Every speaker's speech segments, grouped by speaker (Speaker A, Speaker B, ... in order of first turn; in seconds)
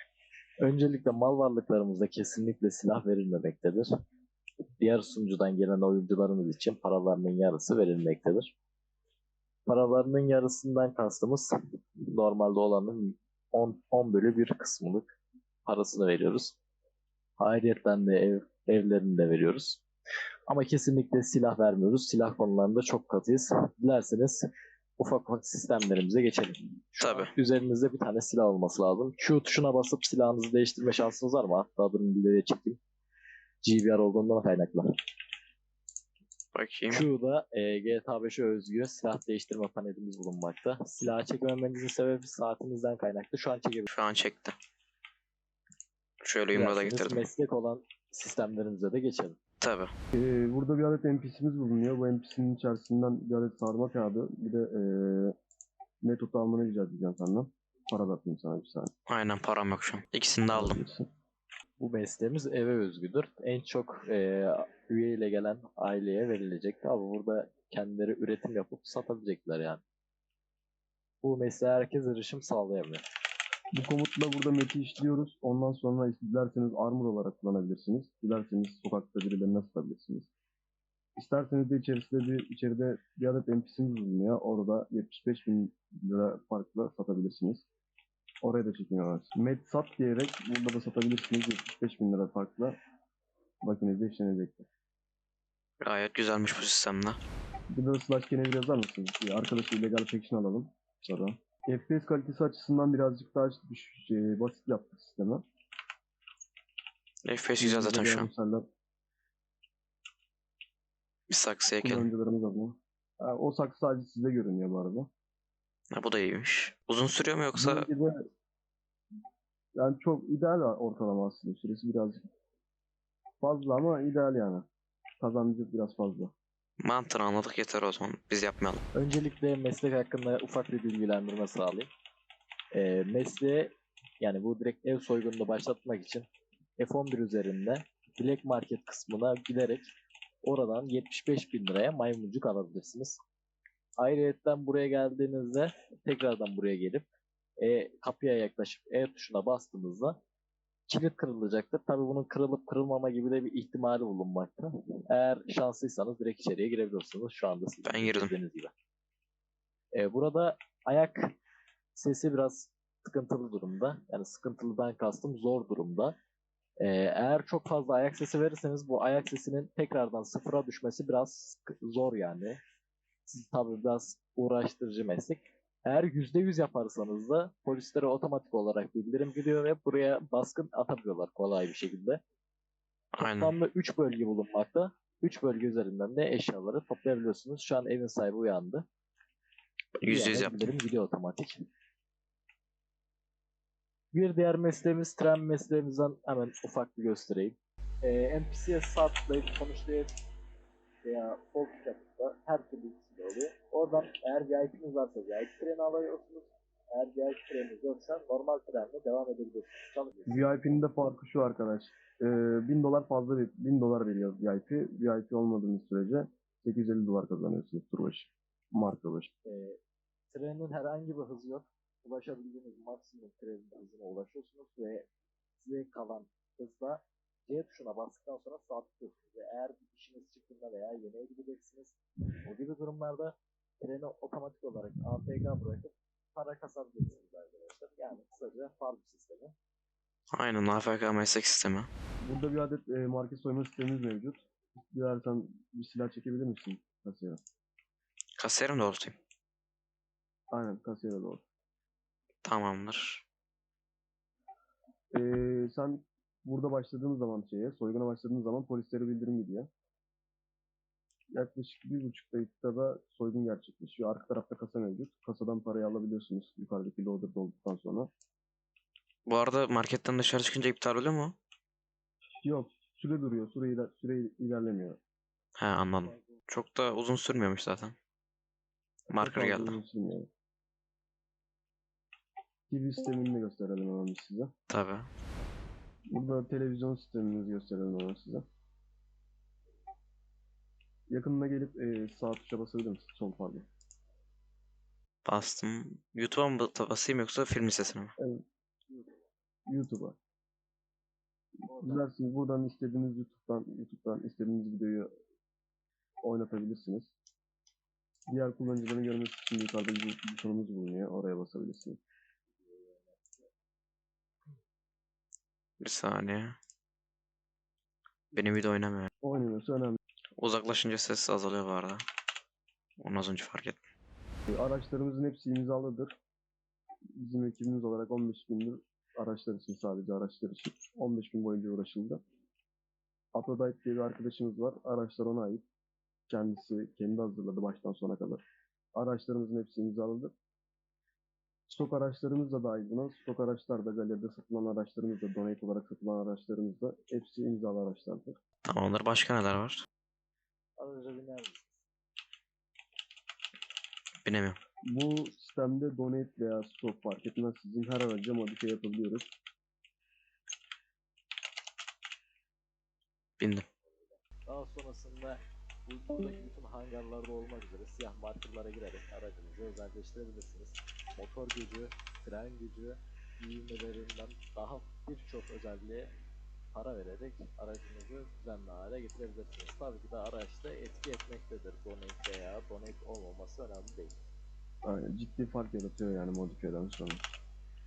Speaker A: 0.6-3.9, 4.8-8.5, 9.7-16.6, 17.4-19.8, 20.5-32.8, 33.6-34.9, 36.9-43.9, 46.5-49.4, 61.8-69.8, 71.2-73.0, 128.9-131.9, 132.7-136.3, 136.8-143.2, 144.0-147.1, 147.6-150.2, 150.9-158.7, 159.9-161.4, 161.9-166.2, 166.8-172.6, 173.3-182.2, 183.2-188.9, 190.1-191.6, 194.1-200.1, 201.0-210.4, 219.4-219.8, 220.3-239.5, 298.9-299.2, 301.7-302.0, 312.6-313.2, 350.8-351.8, 364.5-376.1, 376.7-384.2
Speaker B: 27.0-27.3, 36.5-37.1, 43.9-44.5, 46.2-47.3, 49.6-49.9, 59.1-60.8, 95.8-97.2, 107.2-108.3, 111.3-112.1, 115.9-117.9, 126.8-128.8, 157.8-158.3, 183.1-183.5, 190.0-190.7, 240.3-241.9, 248.4-249.2, 252.4-253.2, 269.3-271.3, 275.6-277.9, 279.1-279.8, 284.7-285.1, 295.2-298.1, 315.8-316.6, 318.3-319.1, 320.4-322.0, 323.0-323.8, 348.6-349.9, 354.2-354.6, 363.4-363.7
Speaker C: 50.1-55.4, 56.0-58.9, 60.5-61.1, 73.7-80.3, 81.2-87.7, 88.4-92.8, 93.6-94.7, 97.7-105.4, 107.6-108.7, 111.8-115.1, 117.6-118.2, 119.8-122.3, 123.4-124.7, 125.2-126.3, 210.3-219.3, 242.2-247.4, 250.5-251.4, 255.1-259.7, 261.3-268.1, 272.4-275.0, 279.1-280.3, 282.7-284.5, 286.1-288.5, 291.1-293.7, 298.2-298.4, 299.7-300.2, 301.8-305.1, 306.2-307.1, 308.3-312.0, 319.2-320.0, 324.5-326.2, 327.1-332.2, 333.3-335.7, 336.3-338.4, 338.9-340.3, 341.7-348.4, 354.9-359.3, 384.8-387.3